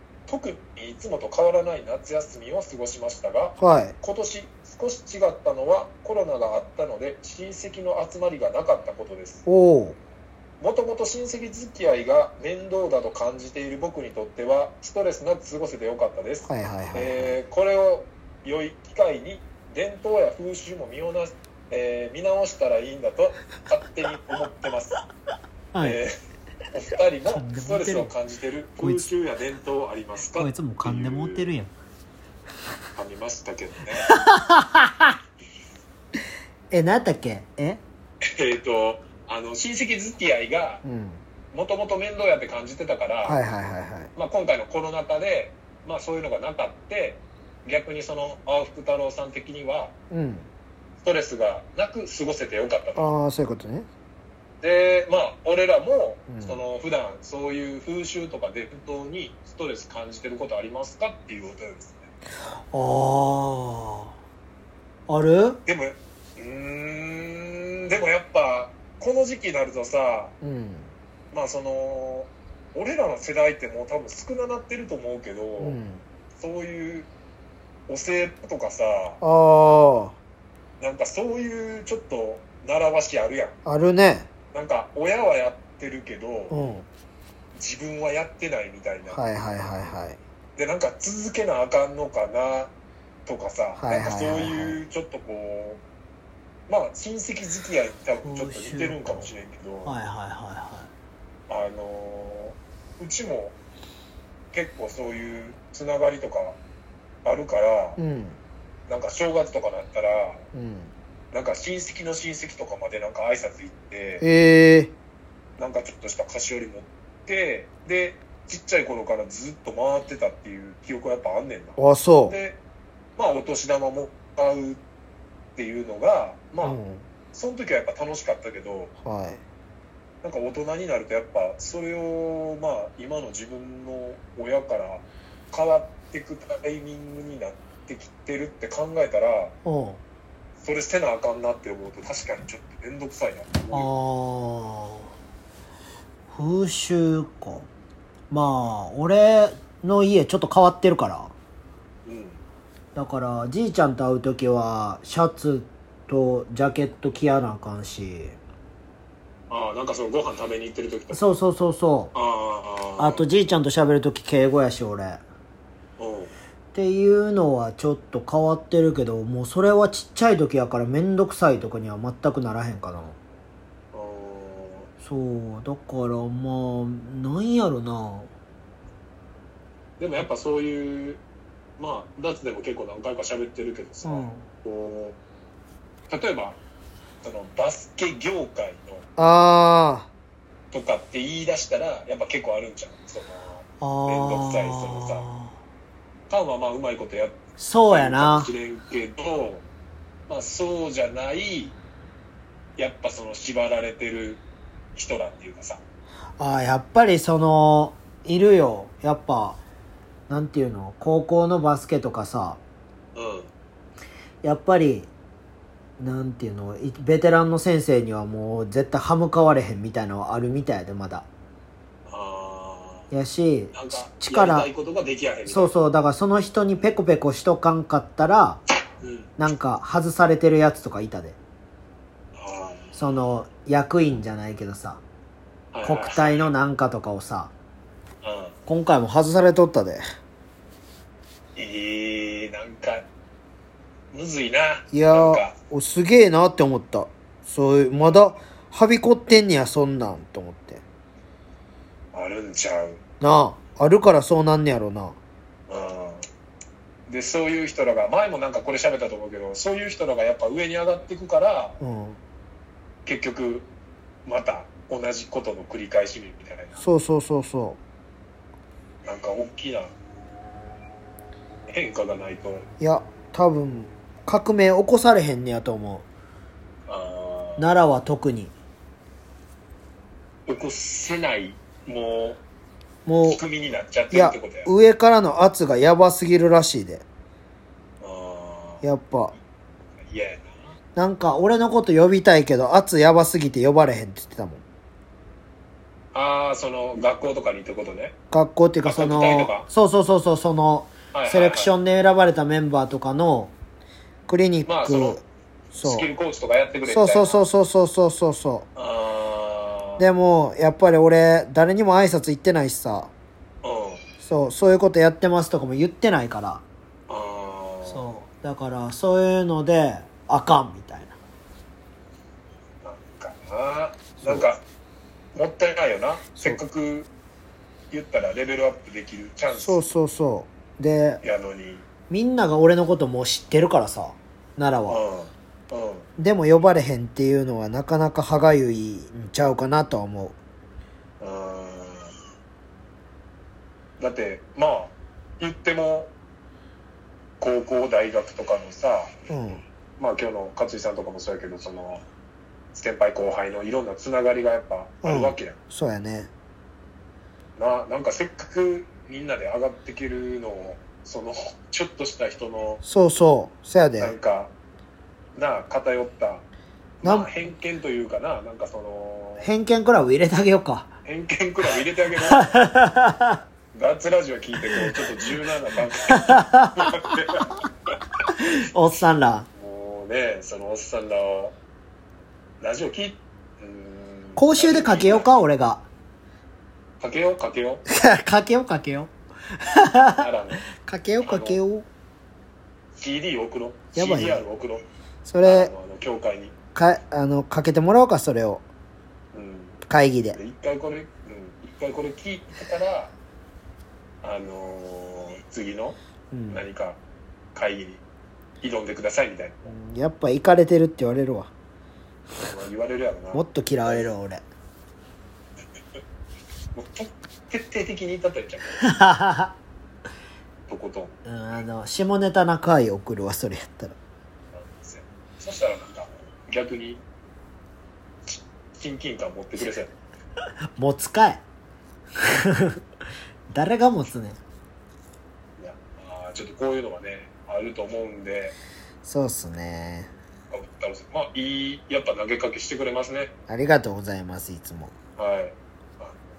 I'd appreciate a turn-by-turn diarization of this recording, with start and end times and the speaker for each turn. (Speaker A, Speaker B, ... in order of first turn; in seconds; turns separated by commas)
Speaker A: 0.3-9.4, Speaker B: 3.6-3.9, Speaker B: 9.4-10.0, Speaker A: 10.6-25.0, Speaker B: 16.5-17.4, Speaker B: 25.7-26.0, Speaker A: 25.8-26.1, Speaker A: 26.7-31.5, Speaker B: 27.3-28.1, Speaker B: 28.8-29.1, Speaker B: 30.3-31.7, Speaker A: 33.0-34.1, Speaker B: 34.0-35.1, Speaker B: 36.7-37.8, Speaker A: 38.2-40.8, Speaker B: 40.8-41.2, Speaker A: 41.5-43.4, Speaker B: 43.2-44.1, Speaker A: 44.1-49.9, Speaker B: 50.1-50.5, Speaker A: 51.0-53.1, Speaker B: 53.0-53.9, Speaker A: 54.6-62.1, Speaker B: 56.3-56.6, Speaker B: 62.7-64.1, Speaker B: 65.1-65.6, Speaker A: 65.7-70.3, Speaker B: 70.4-70.9, Speaker A: 71.3-75.8, Speaker B: 75.6-76.0, Speaker A: 76.3-77.1, Speaker A: 77.9-79.2, Speaker B: 79.2-80.1, Speaker A: 80.8-83.5, Speaker B: 83.6-84.3, Speaker A: 84.5-86.6, Speaker B: 86.5-86.8, Speaker A: 87.5-89.2, Speaker B: 89.1-90.2, Speaker A: 90.5-92.7, Speaker A: 93.2-95.8, Speaker B: 93.8-94.8, Speaker A: 96.7-99.9, Speaker B: 98.2-99.3, Speaker B: 99.8-100.9, Speaker A: 101.5-103.6, Speaker A: 104.5-106.6, Speaker A: 107.2-108.0, Speaker B: 108.0-108.4, Speaker A: 108.9-110.4, Speaker B: 110.5-110.9, Speaker A: 111.3-114.2, Speaker B: 114.2-114.9, Speaker A: 115.6-122.6, Speaker B: 121.8-122.4, Speaker A: 123.2-124.8, Speaker A: 125.5-126.8, Speaker B: 126.6-127.0, Speaker A: 127.3-128.9, Speaker B: 129.0-129.4, Speaker A: 130.2-139.5, Speaker B: 139.6-140.0, Speaker A: 140.6-143.9, Speaker B: 143.7-145.1, Speaker B: 146.3-147.7, Speaker B: 148.3-151.3, Speaker A: 152.0-152.4, Speaker B: 152.9-158.4, Speaker A: 159.5-161.2, Speaker B: 161.1-162.1, Speaker A: 162.1-163.2, Speaker B: 163.0-165.2, Speaker A: 166.0-166.3, Speaker B: 166.7-173.2, Speaker A: 173.9-174.9, Speaker B: 175.0-178.3, Speaker A: 180.0-181.2, Speaker A: 181.8-185.2, Speaker B: 184.0-184.4, Speaker A: 186.1-186.6, Speaker A: 187.2-189.0, Speaker B: 189.2-190.1, Speaker A: 190.7-195.2, Speaker B: 193.8-195.5, Speaker A: 196.3-199.6, Speaker B: 197.6-198.5, Speaker A: 200.3-201.8, Speaker A: 202.8-204.4, Speaker A: 204.9-205.8, Speaker B: 206.4-209.6, Speaker B: 210.3-212.6, Speaker A: 213.1-213.5, Speaker B: 214.4-215.1, Speaker B: 216.0-221.2, Speaker A: 222.1-223.1, Speaker B: 223.1-224.7, Speaker A: 223.7-225.7, Speaker B: 225.5-228.6, Speaker A: 229.0-229.3, Speaker B: 229.4-231.4, Speaker A: 232.3-233.0, Speaker B: 232.9-235.0, Speaker A: 235.7-236.5, Speaker B: 235.8-237.5, Speaker A: 238.2-238.6, Speaker B: 238.7-240.0, Speaker A: 241.5-243.1, Speaker A: 244.1-245.6, Speaker B: 244.9-250.8, Speaker A: 252.1-253.0, Speaker B: 253.2-255.2, Speaker A: 255.7-256.2, Speaker A: 257.1-261.8, Speaker B: 261.8-262.2, Speaker A: 263.0-263.7, Speaker A: 264.2-266.8, Speaker B: 266.8-267.8, Speaker A: 269.0-269.9, Speaker A: 271.7-272.6, Speaker B: 272.8-276.0, Speaker A: 276.9-277.7, Speaker B: 277.6-278.5, Speaker A: 280.5-282.4, Speaker B: 283.1-283.4, Speaker A: 283.2-284.7, Speaker B: 284.1-287.0, Speaker A: 288.0-288.8, Speaker B: 288.8-289.3, Speaker A: 290.0-290.8, Speaker B: 290.9-294.6, Speaker A: 296.1-298.1, Speaker B: 298.3-303.5, Speaker A: 298.8-299.7, Speaker A: 301.1-301.7, Speaker B: 304.3-305.2, Speaker A: 304.6-305.2, Speaker B: 305.7-306.1, Speaker A: 305.7-307.4, Speaker B: 306.9-308.6, Speaker A: 308.8-310.1, Speaker B: 310.0-313.1, Speaker A: 313.6-314.0, Speaker B: 314.2-316.6, Speaker A: 317.1-318.0, Speaker B: 317.9-321.2, Speaker A: 322.8-324.6, Speaker A: 325.3-327.1, Speaker A: 327.9-329.9, Speaker B: 329.5-331.2, Speaker A: 331.2-331.9, Speaker B: 332.1-335.0, Speaker A: 334.9-336.1, Speaker B: 336.2-340.4, Speaker A: 341.2-342.1, Speaker A: 344.0-346.1, Speaker A: 347.4-349.1, Speaker B: 349.3-349.6, Speaker A: 350.0-352.0, Speaker A: 352.7-355.6, Speaker B: 355.0-356.3, Speaker A: 357.6-362.8, Speaker B: 362.8-364.1, Speaker A: 364.0-364.5, Speaker A: 365.4-366.4, Speaker A: 367.0-369.5, Speaker B: 367.0-367.3, Speaker B: 369.4-370.9, Speaker A: 371.0-372.6, Speaker B: 372.2-373.4, Speaker A: 373.7-378.0, Speaker B: 374.6-375.1, Speaker B: 376.1-377.2, Speaker B: 378.3-379.5, Speaker A: 379.5-381.5, Speaker A: 382.6-385.3, Speaker B: 384.4-385.8, Speaker A: 387.0-387.8, Speaker B: 387.9-391.9, Speaker A: 390.2-390.6, Speaker A: 391.2-391.6, Speaker A: 392.9-394.8, Speaker B: 393.9-394.4, Speaker B: 395.2-395.7, Speaker A: 395.4-396.5, Speaker B: 396.7-398.6, Speaker A: 399.3-399.8, Speaker B: 399.9-400.4, Speaker A: 400.3-403.1, Speaker A: 404.2-406.0, Speaker B: 406.3-406.6, Speaker A: 406.5-407.0, Speaker A: 407.5-408.0, Speaker A: 408.6-409.7, Speaker B: 409.6-411.5, Speaker A: 412.4-414.1, Speaker B: 413.3-414.4, Speaker A: 416.7-418.9, Speaker B: 418.8-419.5, Speaker A: 420.7-421.1, Speaker B: 421.2-423.9, Speaker A: 424.5-427.0, Speaker A: 428.2-429.9, Speaker B: 430.8-431.4, Speaker B: 432.2-432.8, Speaker B: 433.5-434.4, Speaker A: 435.6-438.5, Speaker B: 439.0-440.1, Speaker A: 440.5-443.3, Speaker B: 443.5-444.9, Speaker A: 445.1-446.2